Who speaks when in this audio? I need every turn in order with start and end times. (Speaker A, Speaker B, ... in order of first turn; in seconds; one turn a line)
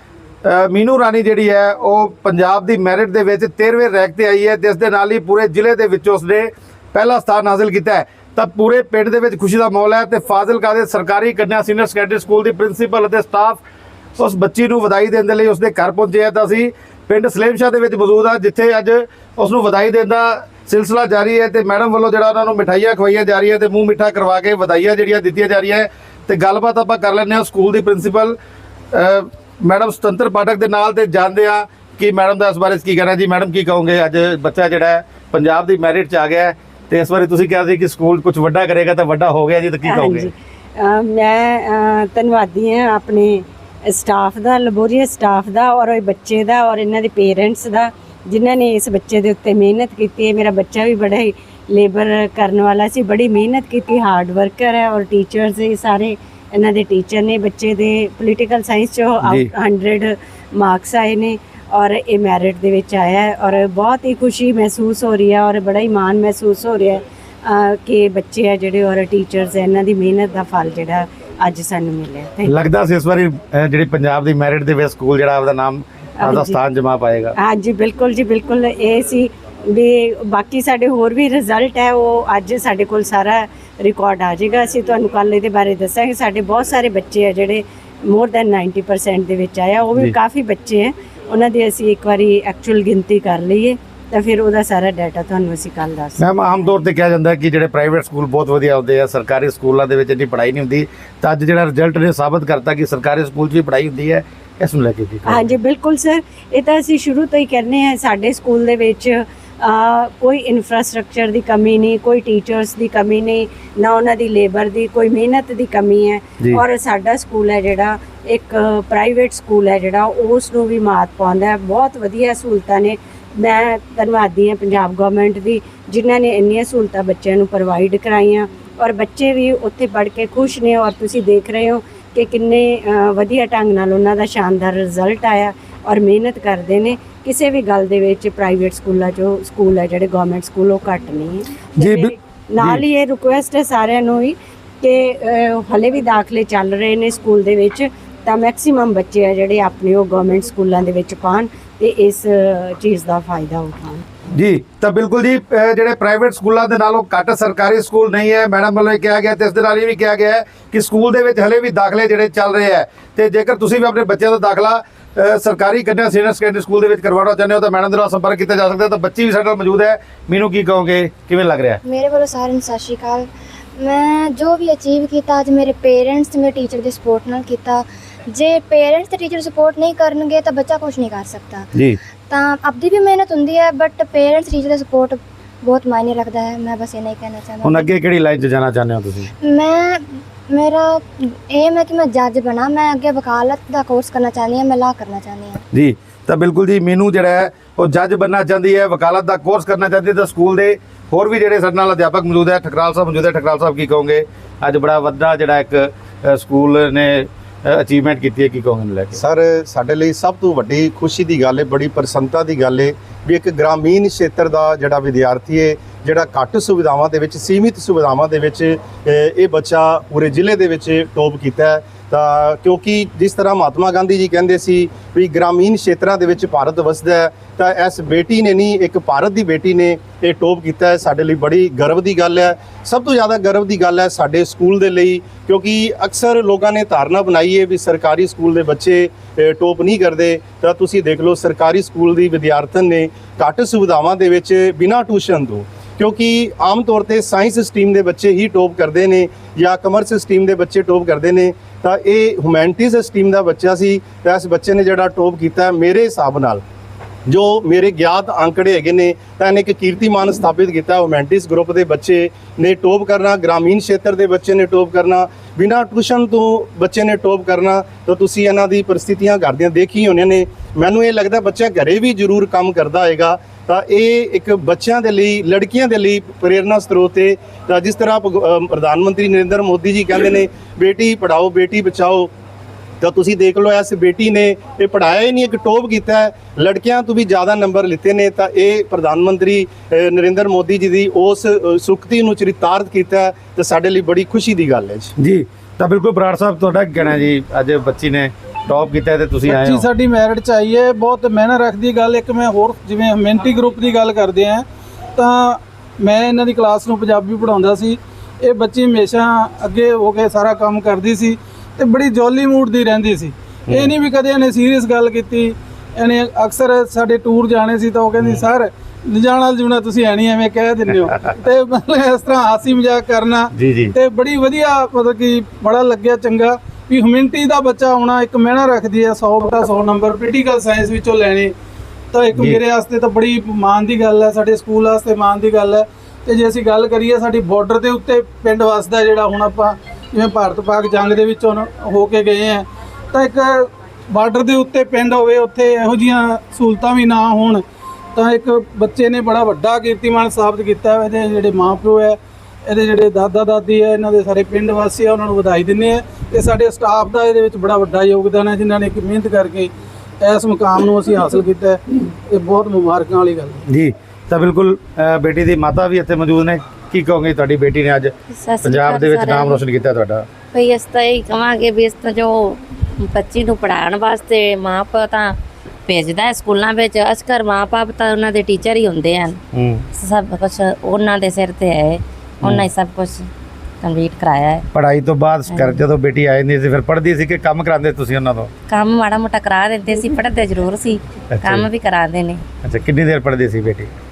Speaker A: 0.4-13.6
Speaker A: 14.2-28.4
Speaker A: 28.9-40.3
Speaker B: 39.8-72.5
Speaker A: 59.2-59.5
Speaker A: 72.5-77.3
Speaker B: 76.2-76.6
Speaker B: 77.3-96.3
Speaker A: 96.2-105.5
Speaker B: 105.2-154.0
Speaker A: 141.8-142.8
Speaker A: 154.3-171.8
Speaker C: 171.8-181.7
Speaker C: 182.3-187.9
Speaker A: 187.6-189.3
Speaker C: 189.4-195.6
Speaker A: 195.7-209.2
Speaker D: 209.2-256.6
Speaker D: 257.3-282.3
Speaker D: 283.0-295.1
Speaker A: 295.2-299.9
Speaker E: 299.5-304.6
Speaker E: 305.1-331.5
Speaker A: 323.5-323.9
Speaker E: 332.1-347.6
Speaker A: 332.4-332.6
Speaker E: 348.1-361.8
Speaker E: 362.3-363.6
Speaker A: 363.7-370.3
Speaker F: 368.4-369.6
Speaker F: 370.5-379.4
Speaker A: 379.5-379.8
Speaker F: 379.9-383.3
Speaker A: 382.4-382.7
Speaker F: 383.8-384.6
Speaker A: 384.7-388.5
Speaker F: 385.5-385.8
Speaker F: 388.7-392.4
Speaker A: 391.3-391.7
Speaker A: 392.6-393.9